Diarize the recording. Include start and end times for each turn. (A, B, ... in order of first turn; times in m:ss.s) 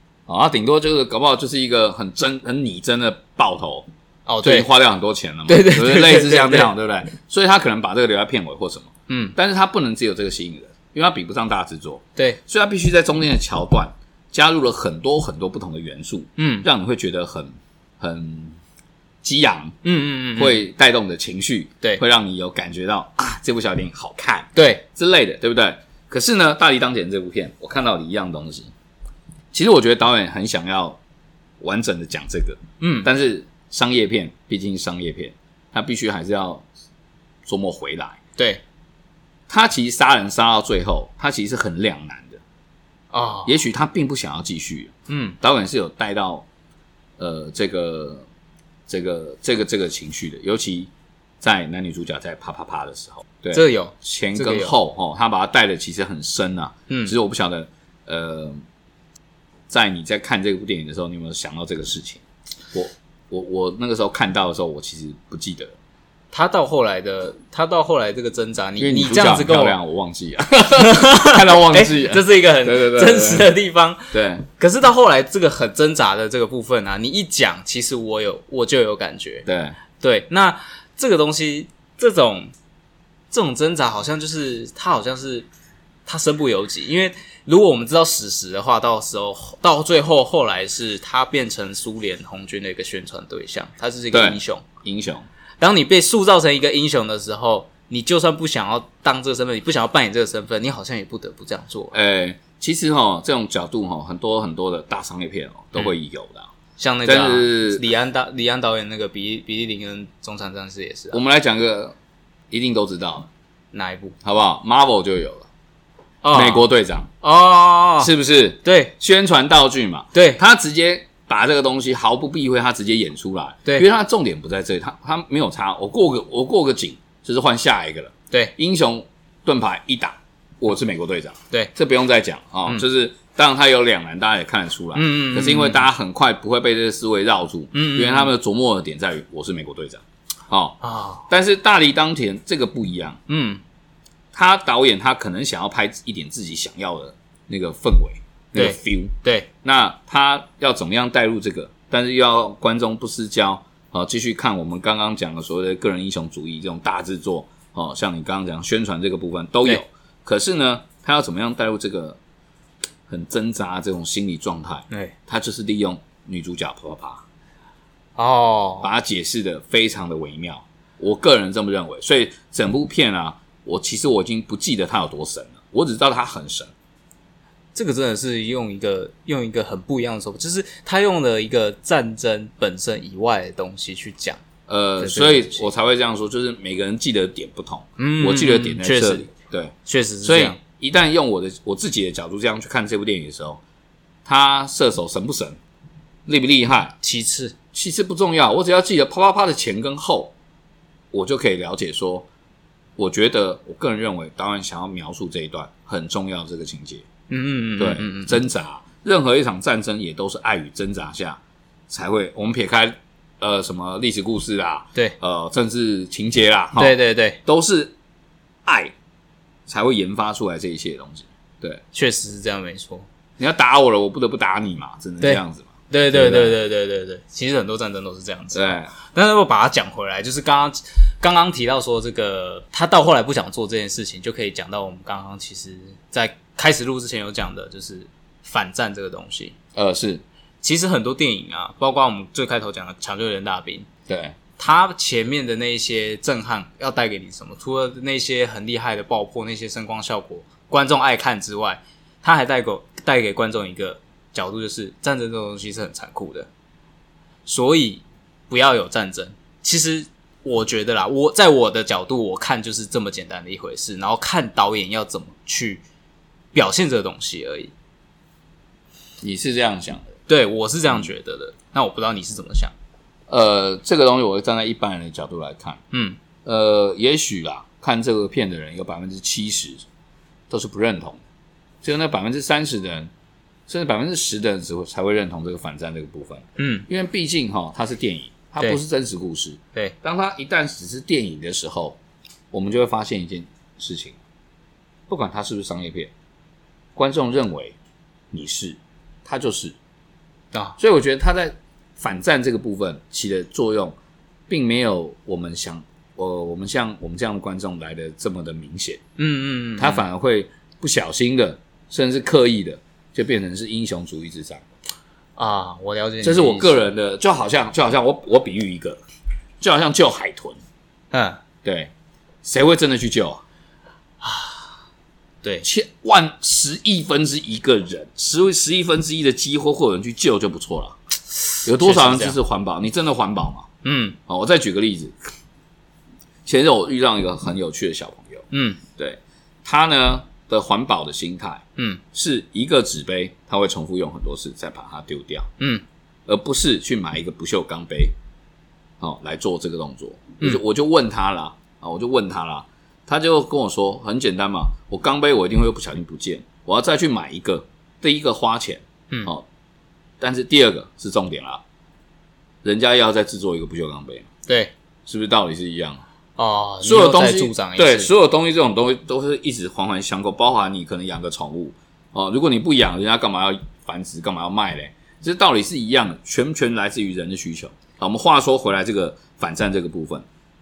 0:00.3-0:03.9 A
0:04.3-0:04.7 B
0:04.4-0:18.6 A
0:05.5-0:06.7 B
0:09.1-0:09.3 B
0:16.4-0:16.6 B
0:19.2-0:19.8 A
0:19.8-0:20.6 B
0:20.4-0:28.7 A
0:24.6-0:24.8 B
0:29.5-0:31.0 A
0:31.6-0:36.6 A
0:32.8-0:33.1 B
0:37.4-0:38.2 A
0:38.4-0:38.6 B
0:39.5-0:42.4 A
0:43.1-0:43.5 B
0:43.4-0:46.4 A
0:45.1-0:45.4 B
0:47.2-0:48.2 A
0:48.9-0:50.9 A
0:51.4-0:58.6 A
0:53.5-0:54.7 B
0:56.9-0:57.1 B
0:59.7-1:02.2 A
1:02.7-1:05.7 A
1:06.3-1:09.8 B
1:08.8-1:13.5 A
1:10.8-1:19.4 B
1:14.1-1:14.4 A
1:19.4-1:19.8 A
1:20.0-1:22.5 B
1:23.3-1:25.5 B
1:26.0-1:34.6 B
1:34.1-1:35.2 A
1:35.6-1:42.0 B
1:41.9-1:46.5 A
1:46.8-1:51.2 B
1:47.0-1:47.8 A
1:51.1-1:51.9 A
1:52.5-1:53.3 A
1:53.7-1:54.2 B
1:54.2-1:55.5 A
1:56.2-1:56.7 B
1:56.3-1:57.1 A
1:57.2-1:58.1 B
1:58.0-2:23.2 A
1:58.6-1:58.9 B
2:00.1-2:00.4 B
2:14.9-2:15.8 B
2:17.7-2:18.3 B
2:20.8-2:21.2 B
2:23.3-2:23.6 B
2:24.3-2:42.2 A
2:28.5-2:29.5 B
2:43.1-2:47.2 A
2:48.2-2:48.9 B
2:48.8-2:56.7 A
2:57.7-3:04.4 B
3:04.7-3:13.6 A
3:05.0-3:05.7 B
3:08.0-3:09.3 B
3:09.8-3:10.6 B
3:14.2-3:15.6 A
3:16.2-3:16.9 A
3:17.0-3:17.6 B
3:17.7-3:20.3 A
3:21.1-3:22.3 A
3:23.0-3:27.0 A
3:27.3-3:28.4 B
3:27.8-3:37.9 A
3:36.8-3:37.4 B
3:38.6-3:38.9 A
3:39.7-3:41.8 A
3:41.9-3:43.0 B
3:43.4-3:46.6 A
3:45.2-3:59.5 B
3:48.5-3:48.9 A
3:59.7-4:00.2 A
4:00.6-4:03.9 B
4:04.1-4:04.4 A
4:04.6-4:16.5 B
4:17.4-4:25.8 B
4:26.5-4:27.7 B
4:29.2-4:30.1 A
4:30.3-4:32.7 B
4:33.3-4:35.8 A
4:35.9-4:36.2 B
4:36.4-4:39.8 A
4:40.5-4:41.2 A
4:41.8-4:43.1 A
4:43.7-4:52.0 A
4:46.6-4:46.9 B
4:52.5-4:54.2 A
4:55.1-4:56.1 A
4:57.0-4:57.8 A
4:58.3-4:59.7 A
5:00.8-5:04.0 A
5:04.5-5:09.0 A
5:09.2-5:10.0 B
5:09.8-5:14.6 A
5:15.4-5:16.8 B
5:16.2-5:19.0 A
5:19.6-5:20.6 A
5:21.1-5:21.4 B
5:21.6-5:21.9 A
5:22.4-5:23.4 A
5:24.2-5:24.7 B
5:25.6-5:31.0 A
5:31.5-5:32.4 B
5:31.6-5:33.7 A
5:33.8-5:34.2 B
5:34.3-5:35.2 A
5:36.4-5:45.5 A
5:38.5-5:38.8 B
5:45.6-5:45.8 B
5:46.3-5:48.1 A
5:49.0-5:59.4 A
6:00.2-6:01.6 A
6:02.6-6:04.3 A
6:04.5-6:04.7 B
6:05.0-6:06.0 A
6:06.4-6:08.1 B
6:06.8-6:20.2 A